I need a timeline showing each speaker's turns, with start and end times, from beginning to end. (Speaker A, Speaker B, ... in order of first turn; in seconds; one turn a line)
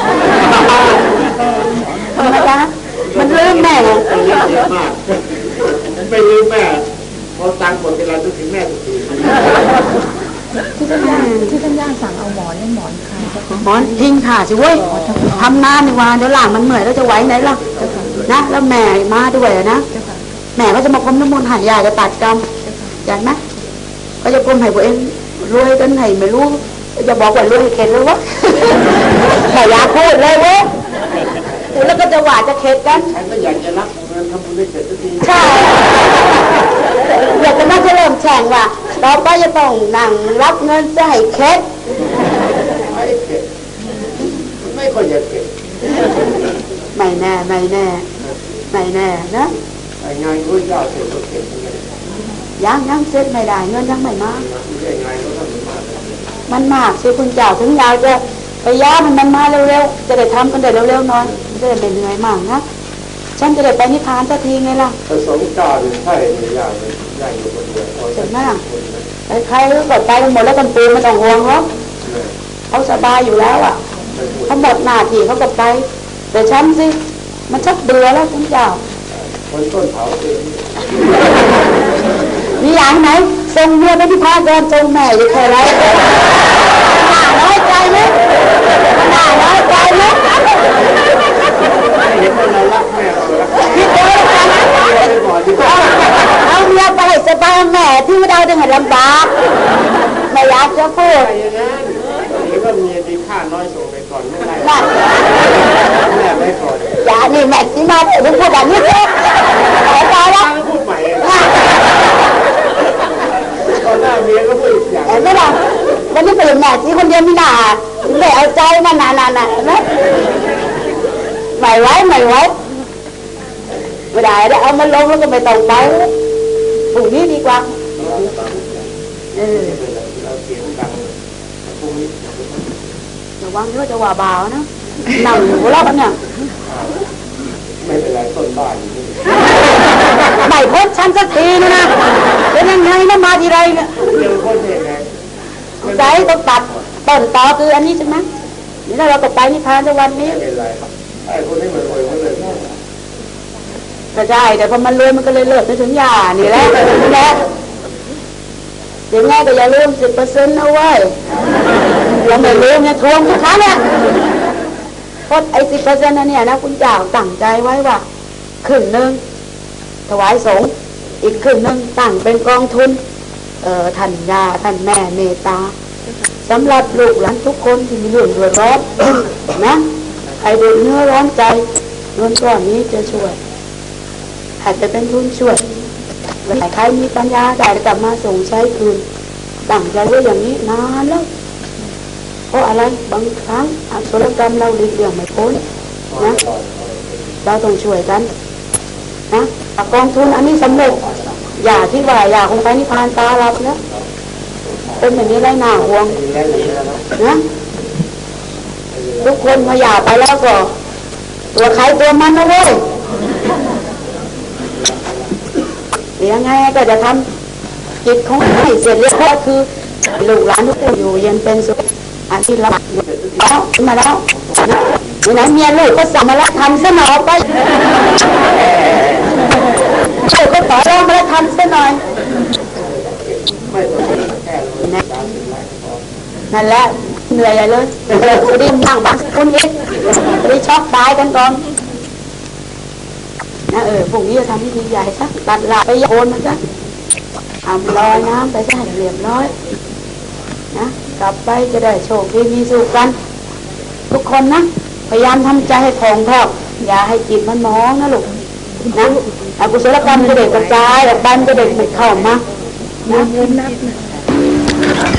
Speaker A: 0.3-1.8
Speaker B: 0.5-0.9
Speaker B: 2.1-4.1
Speaker A: 3.0-9.7
Speaker B: 10.8-11.7
Speaker C: 11.7-13.4
Speaker B: 13.5-17.6
Speaker A: 17.2-18.3
Speaker B: 18.2-19.9
Speaker B: 20.5-22.5
Speaker B: 23.0-23.4
Speaker B: 24.2-30.7
Speaker B: 31.7-33.1
Speaker A: 32.9-36.0
Speaker B: 35.2-35.9
Speaker B: 37.2-41.6
Speaker A: 42.9-43.5
Speaker A: 44.6-45.5
Speaker B: 46.9-48.0
Speaker B: 48.7-49.5
Speaker A: 50.0-51.9
Speaker B: 52.6-54.5
Speaker A: 54.4-56.3
Speaker B: 56.5-62.6
Speaker B: 63.4-65.0
Speaker A: 65.1-69.1
Speaker B: 68.1-68.6
Speaker B: 69.3-71.7
Speaker A: 72.0-72.3
Speaker B: 72.7-73.8
Speaker A: 74.1-74.8
Speaker B: 74.5-77.0
Speaker B: 77.5-78.8
Speaker A: 79.1-81.0
Speaker B: 82.6-86.2
Speaker B: 86.8-88.2
Speaker B: 88.9-90.2
Speaker A: 91.9-96.1
Speaker B: 93.7-94.7
Speaker B: 95.6-99.3
Speaker B: 100.3-101.3
Speaker A: 101.0-106.9
Speaker B: 104.6-105.0
Speaker B: 107.0-110.5
Speaker A: 110.1-111.7
Speaker B: 111.2-111.6
Speaker A: 113.6-115.4
Speaker B: 115.0-119.9
Speaker B: 121.5-122.5
Speaker B: 124.1-126.1
Speaker B: 126.9-128.5
Speaker A: 128.0-128.8
Speaker B: 129.3-129.8
Speaker A: 129.4-132.8
Speaker B: 133.4-136.2
Speaker A: 136.7-137.0
Speaker A: 137.8-139.5
Speaker B: 140.3-141.9
Speaker B: 142.5-144.1
Speaker A: 144.0-145.1
Speaker A: 145.8-146.3
Speaker B: 145.8-148.2
Speaker B: 148.8-150.4
Speaker A: 150.2-152.8
Speaker B: 154.1-157.4
Speaker B: 159.1-161.2
Speaker B: 162.2-163.9
Speaker B: 165.3-168.0
Speaker B: 168.6-169.2
Speaker B: 170.1-173.0
Speaker B: 173.6-175.7
Speaker B: 176.4-179.8
Speaker B: 180.4-181.6
Speaker B: 182.2-183.4
Speaker B: 184.6-185.6
Speaker B: 186.4-189.0
Speaker B: 189.7-191.3
Speaker B: 192.5-195.6
Speaker A: 196.1-197.3
Speaker B: 197.4-198.3
Speaker B: 199.3-203.8
Speaker A: 201.0-201.3
Speaker A: 204.7-207.1
Speaker B: 205.0-206.2
Speaker B: 207.2-207.4
Speaker A: 208.9-210.0
Speaker B: 209.2-210.7
Speaker B: 211.5-212.8
Speaker A: 214.7-215.3
Speaker B: 216.2-217.2
Speaker B: 218.0-227.5
Speaker A: 223.0-223.5
Speaker A: 228.5-229.3
Speaker B: 230.2-232.0
Speaker A: 232.7-236.0
Speaker B: 236.5-241.6
Speaker B: 243.7-246.6
Speaker B: 247.6-249.5
Speaker B: 250.7-253.1
Speaker B: 254.1-258.3
Speaker B: 258.9-262.4
Speaker B: 263.1-263.4
Speaker C: 263.4-263.9